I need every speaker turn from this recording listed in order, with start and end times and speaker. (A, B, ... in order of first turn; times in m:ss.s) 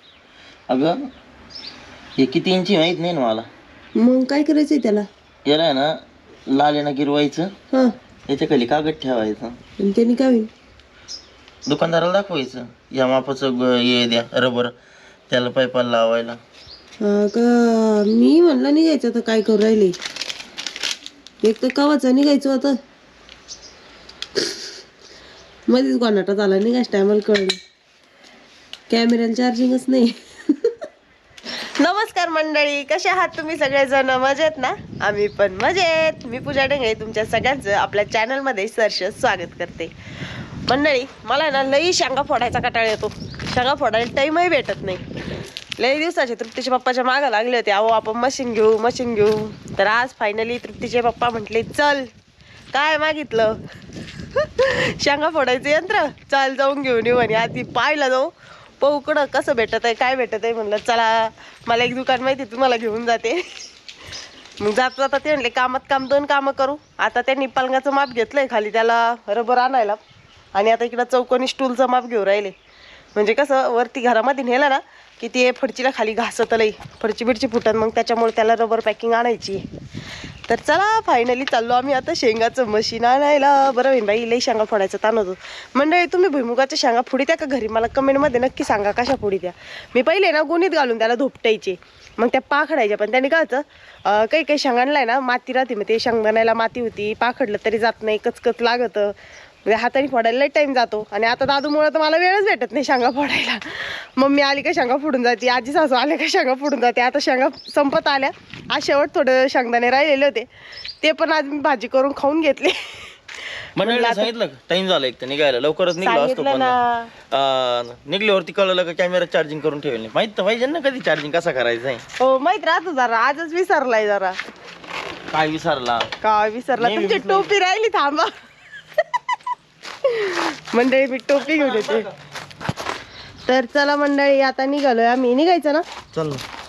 0:00.7-0:01.0 A
0:02.2-0:03.5 A
0:04.0-0:05.1 B
0:05.5-0:06.0 A
0:06.5-0:07.5 A
0:08.3-0:09.6 A
0:09.8-0:10.5 B
0:11.6-0:14.7 A
0:15.3-0:16.4 A
0:17.0-0:20.0 B
0:21.4-0:22.8 B
0:25.7-0:27.6 B
0:28.9-0:30.8 B
0:31.8-0:39.9 B
0:40.7-0:45.0 B
0:45.8-0:52.1 B
0:52.7-0:53.6 B
0:54.4-1:03.4 B
1:04.6-1:10.0 B
1:10.6-1:12.5 B
1:13.1-1:19.6 B
1:20.5-1:39.1 B
1:39.6-1:50.5 B
1:51.0-1:54.3 B
1:53.8-1:56.8 A
1:56.0-1:57.1 B
1:57.3-2:02.0 A
2:02.2-2:04.4 B
2:05.3-2:06.1 A
2:06.2-2:08.3 B
2:06.8-2:07.5 A
2:10.0-2:12.1 B
2:11.3-2:12.1 A
2:13.5-2:15.8 B
2:16.1-2:16.4 A